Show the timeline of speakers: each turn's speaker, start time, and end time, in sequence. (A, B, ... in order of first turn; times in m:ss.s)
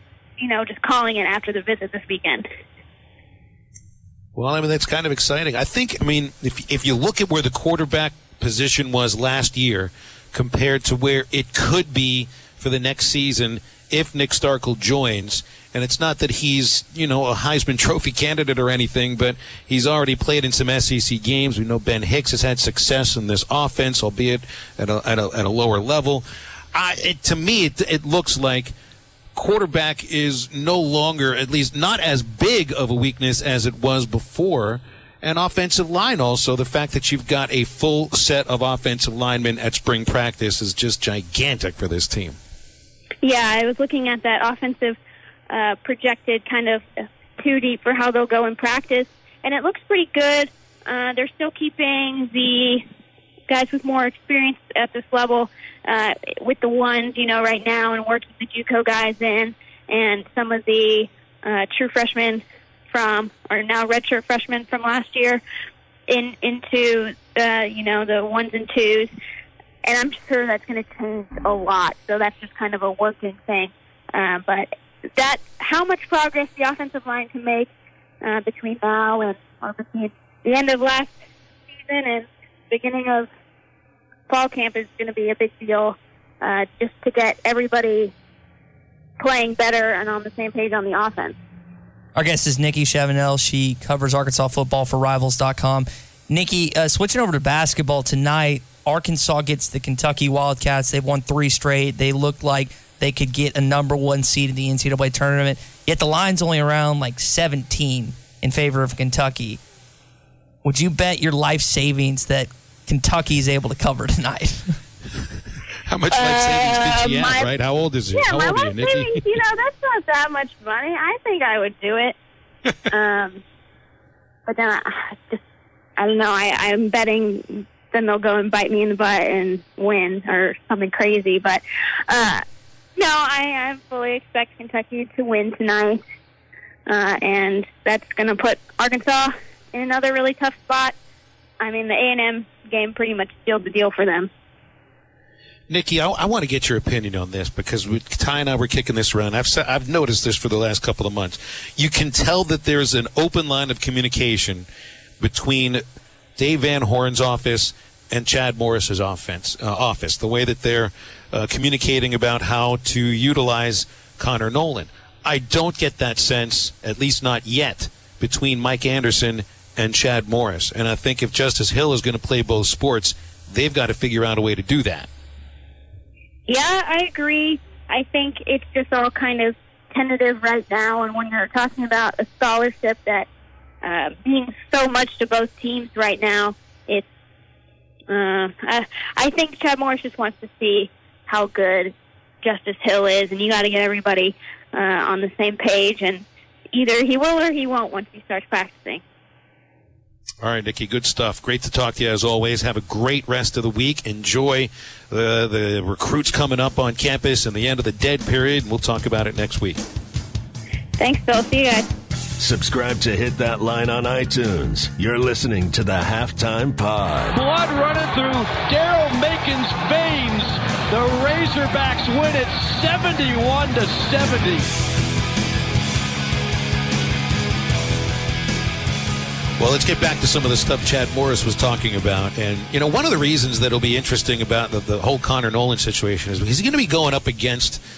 0:00.4-0:02.4 A
0:04.4-0:28.7 B
0:29.4-0:42.4 B
0:43.2-0:45.0 A
0:45.5-0:46.8 A
0:47.4-0:52.8 A
0:53.5-1:05.4 A
1:06.1-1:09.1 A
1:09.8-1:17.7 A
1:18.2-1:21.2 A
1:21.8-1:23.3 A
1:24.3-1:28.1 A
1:29.2-1:31.4 A
1:32.1-1:49.6 C
1:50.6-1:54.8 C
1:55.8-1:59.4 B
1:56.1-1:57.5 A
1:58.2-2:02.2 A
2:02.9-2:03.4 A
2:04.4-2:05.4 A
2:06.0-2:12.4 A
2:13.0-2:16.0 A
2:16.9-2:20.9 A
2:21.6-2:24.3 A
2:25.7-2:34.6 B
2:35.2-2:35.8 B
2:36.4-2:55.1 B
2:56.5-3:03.3 A
3:03.8-3:07.1 A
3:08.1-3:19.0 A
3:20.4-3:29.8 B
3:31.0-3:31.9 A
3:32.4-3:37.4 D
3:37.3-3:44.7 E
3:49.6-3:57.8 B